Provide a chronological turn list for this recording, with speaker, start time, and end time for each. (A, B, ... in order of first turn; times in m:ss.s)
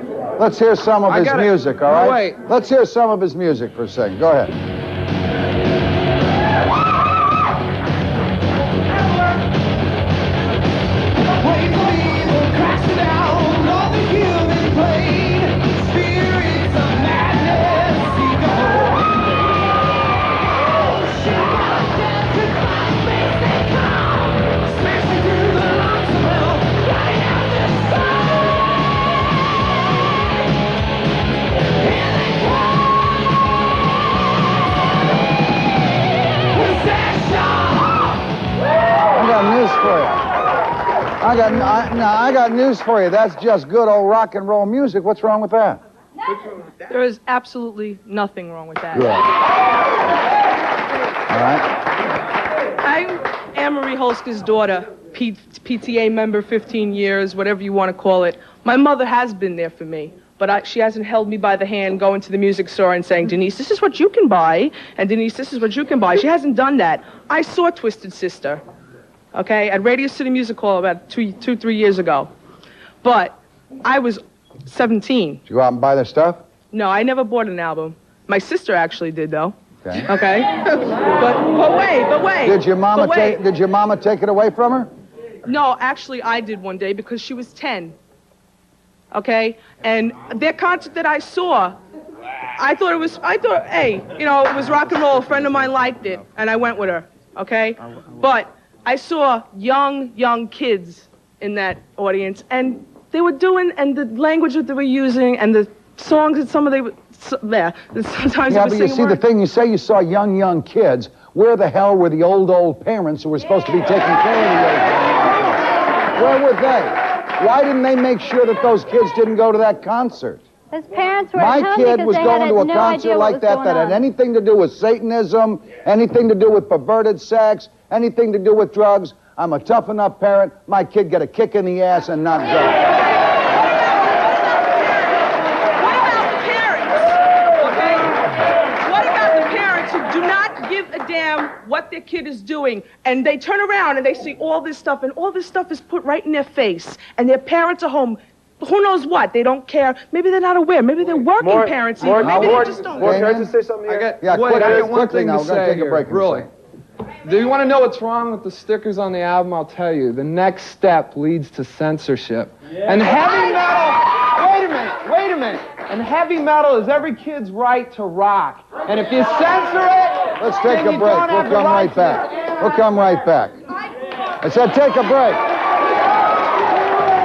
0:00.4-0:04.5 A
0:01.1-0:02.3 B
0:39.1-0:40.2 A
0:41.2-0:45.8 A
0:46.9-0:49.2 C
0:48.9-0:49.3 A
0:51.3-0:51.6 A
0:52.8-1:08.6 C
1:09.3-1:12.3 C
1:13.0-1:15.4 C
1:15.5-1:16.4 A
1:16.7-1:19.5 C
1:19.8-1:20.1 A
1:20.0-1:23.4 C
1:22.4-1:24.9 A
1:25.4-1:27.9 C
1:29.1-1:31.8 C
1:32.6-1:49.2 C
1:48.5-1:55.6 A
1:56.1-2:00.4 A
2:00.7-2:04.0 D
2:01.3-2:12.8 A
2:15.8-2:33.2 C
2:31.4-2:35.0 E
2:32.0-2:33.5 A
2:33.9-2:36.4 B
2:34.2-2:36.5 A
2:37.2-2:52.1 B
2:50.4-2:53.6 A
2:54.4-2:55.4 A